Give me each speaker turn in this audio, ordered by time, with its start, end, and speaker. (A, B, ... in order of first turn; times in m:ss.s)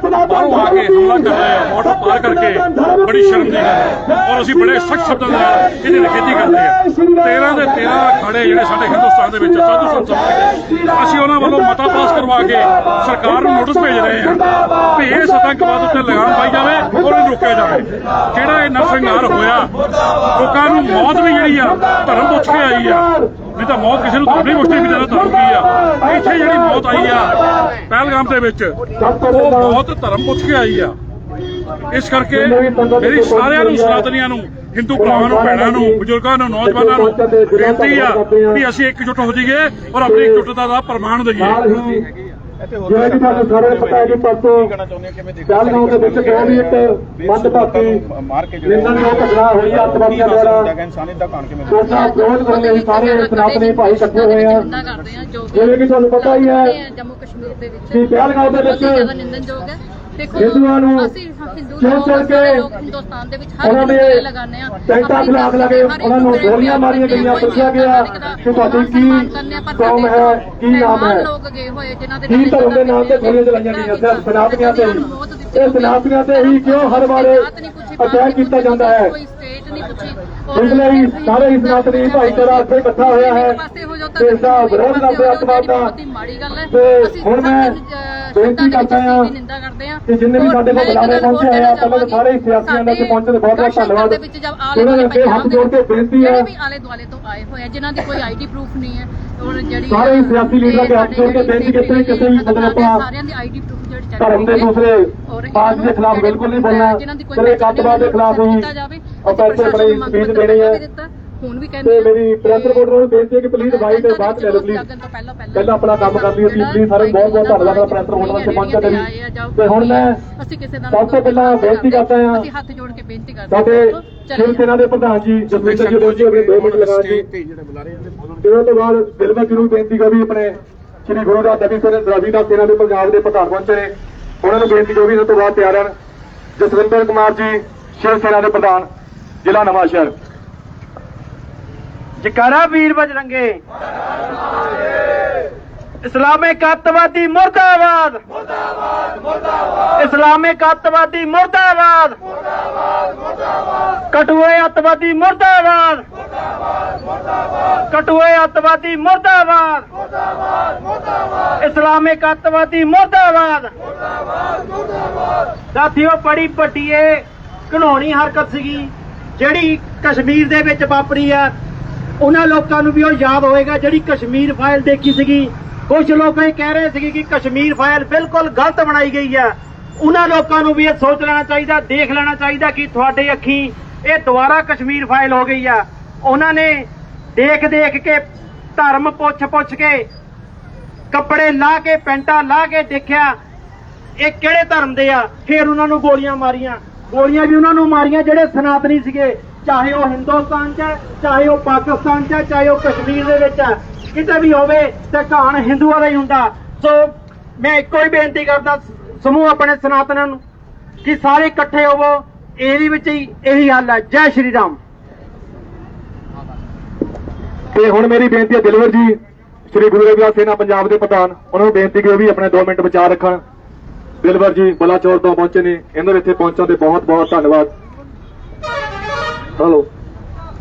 0:00.2-0:19.7 A
0:20.3-0:28.7 A
0:29.0-0:29.8 B
0:29.3-0:30.9 A
0:31.9-0:41.6 A
0:32.3-0:34.1 B
0:34.9-0:36.0 B
0:36.6-0:38.6 B
0:40.0-0:40.5 B
0:41.3-0:42.0 B
0:41.6-0:52.1 C
0:42.8-0:44.7 B
0:45.5-0:48.0 B
0:48.6-0:50.7 B
0:51.7-0:54.6 B
0:51.7-1:44.7 D
0:54.9-0:55.2 C
0:55.5-0:56.8 B
0:57.9-0:59.1 B
1:00.3-1:01.1 B
1:01.8-1:02.6 B
1:03.6-1:04.2 B
1:04.9-1:11.3 B
1:12.3-1:17.5 B
1:18.0-1:19.1 B
1:20.5-1:23.6 B
1:24.2-1:25.9 B
1:26.7-1:27.8 B
1:28.3-1:29.3 B
1:30.1-1:34.2 B
1:34.7-1:36.5 B
1:39.8-1:43.0 B
1:44.2-1:48.7 B
1:45.2-1:52.9 D
1:49.2-1:50.8 B
1:51.8-1:54.8 B
1:53.6-2:04.7 D
1:55.5-2:00.2 B
2:00.9-2:02.5 B
2:03.5-2:07.3 B
2:05.5-2:08.4 C
2:08.4-2:15.9 B
2:16.6-2:18.9 B
2:19.4-2:20.1 B
2:22.2-2:23.6 E
2:26.0-2:28.2 E
2:30.0-2:32.2 E
2:34.1-2:36.0 E
2:37.9-2:39.8 E
2:41.6-2:43.7 E
2:45.7-2:51.5 E
2:52.2-3:08.2 E
3:08.8-3:10.0 E
3:11.1-3:13.4 E
3:14.2-3:30.4 E
3:31.0-3:34.8 E
3:37.7-3:39.2 B
3:39.7-3:43.4 B
3:44.2-3:47.7 B
3:49.6-3:49.9 B